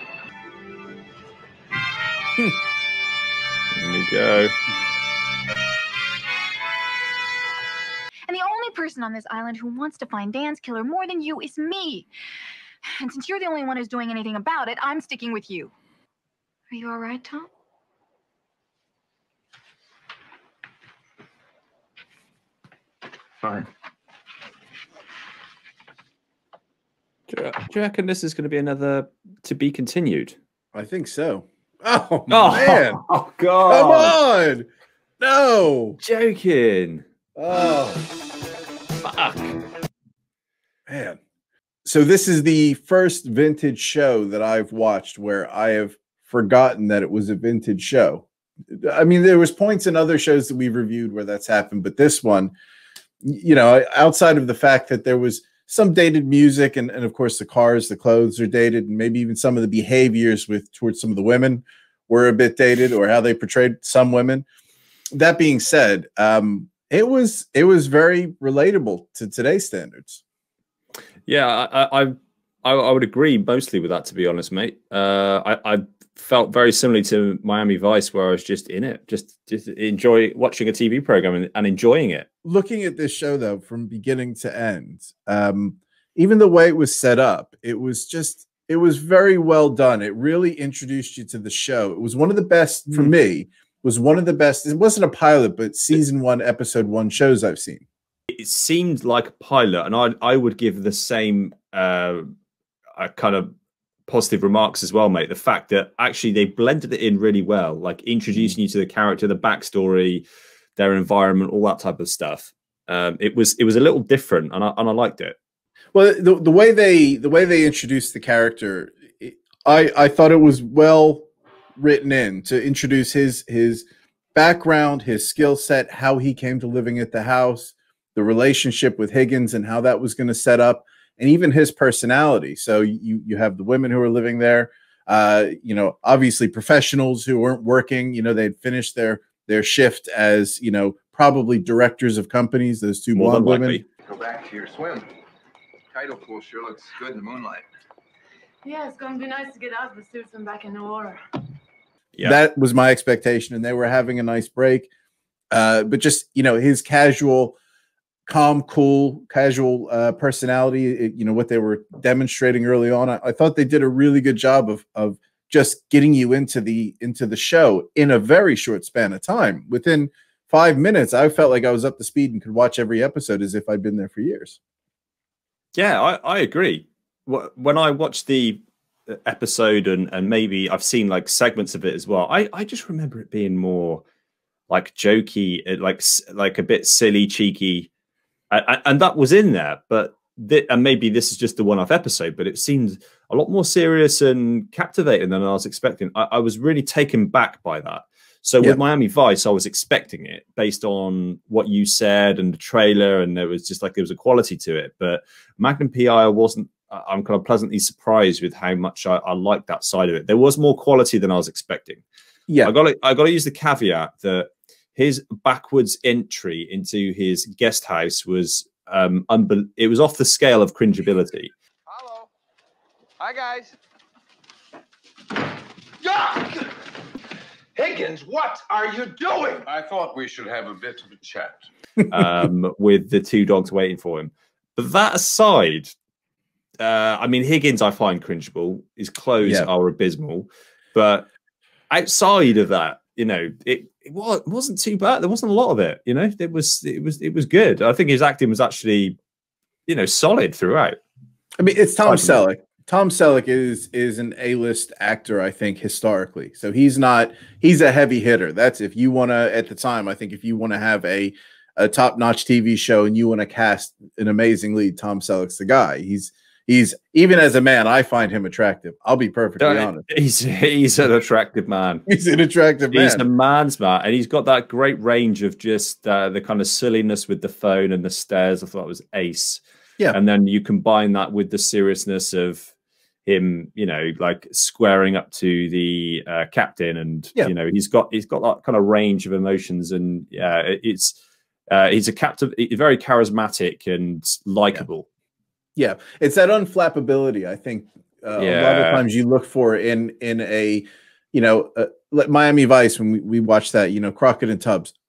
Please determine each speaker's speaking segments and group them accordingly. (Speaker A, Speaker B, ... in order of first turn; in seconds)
Speaker A: 3.7-4.5, 27.3-30.4, 32.3-34.2, 36.0-37.0, 39.0-39.6, 71.3-82.3, 98.3-102.3, 103.0-103.5, 104.1-110.2, 110.8-115.4, 143.1-143.8, 175.8-184.0, 184.7-187.9, 188.5-212.0, 212.6-221.5, 232.1-235.9, 236.8-241.3, 241.9-249.2, 249.9-251.0, 252.1-252.4, 269.6-272.1, 272.9-282.7, 283.2-291.2, 291.7-295.1, 298.4-299.0
Speaker B: 8.3-12.1, 12.8-15.7, 16.7-17.5
Speaker C: 30.7-33.0, 33.6-34.7, 35.2-36.0, 37.4-38.0, 40.9-41.2, 41.9-52.5, 53.2-64.5, 65.1-70.2, 82.4-97.8, 115.9-143.8, 152.2-154.9, 155.5-157.6, 158.3-174.6, 212.5-212.7, 239.4-239.7, 251.6-270.1, 272.1-273.2, 295.8-304.9
Speaker D: 144.0-145.1, 145.9-147.7, 221.9-222.3, 223.2-223.8, 226.0-226.8, 227.8-229.7
Speaker E: 148.6-151.2
Speaker F: 229.6-231.7